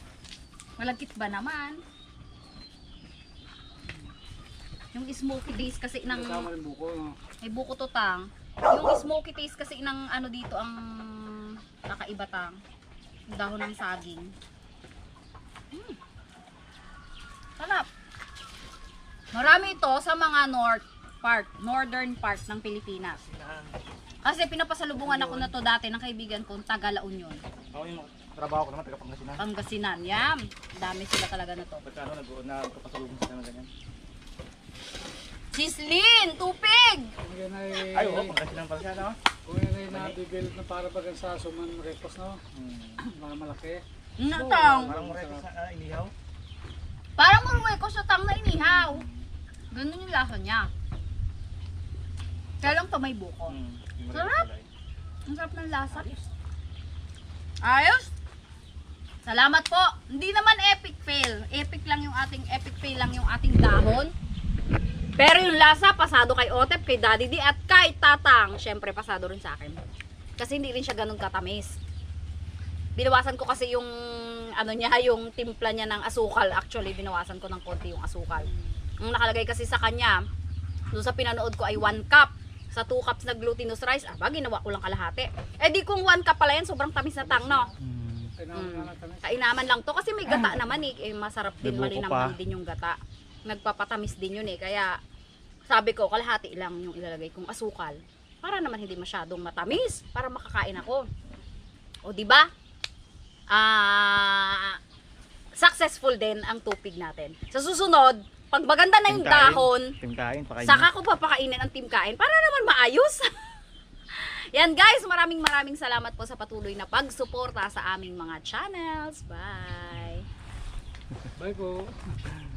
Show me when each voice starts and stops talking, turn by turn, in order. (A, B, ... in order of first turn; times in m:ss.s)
0:00.8-0:01.8 A
0:04.9-0:06.5 A
0:06.1-0:07.2 B
0:07.4-0:12.6 A
0:13.3-0:14.3 A
0:15.7-0:16.0 A
0:17.6-0:17.8 A
0:19.3-0:23.2 A
0:23.2-0:23.8 C
0:24.2-0:27.4 A
0:25.0-0:25.5 C
0:27.7-0:29.4 C
0:29.4-0:31.8 A
0:31.8-0:33.7 C
0:35.5-0:37.1 A
0:37.2-0:38.4 B
0:37.9-0:39.2 C
0:39.4-0:42.4 B
0:39.9-0:40.2 C
0:42.5-0:43.0 C
0:43.0-0:45.5 B
0:44.2-0:44.9 A
0:44.8-0:46.1 C
0:47.2-0:49.0 A
0:48.6-0:49.3 C
0:49.7-0:50.7 A
0:52.6-0:53.6 A
0:53.5-0:54.7 C
0:54.1-0:54.5 A
0:55.3-0:56.2 A
0:57.6-0:58.1 A
0:59.2-1:04.1 A
1:05.2-1:09.8 A
1:10.4-1:11.8 A
1:13.0-1:20.2 A
1:20.9-1:27.7 A
1:27.2-1:27.7 B
1:27.8-1:28.3 C
1:28.4-1:29.5 B
1:28.5-1:35.0 A
1:31.6-1:32.4 C
1:35.7-1:41.1 A
1:42.0-1:42.5 A
1:43.5-1:44.8 A
1:45.6-1:49.9 A
1:49.1-1:50.9 C
1:50.6-1:53.3 A
1:54.1-2:00.2 A
2:01.4-2:02.2 B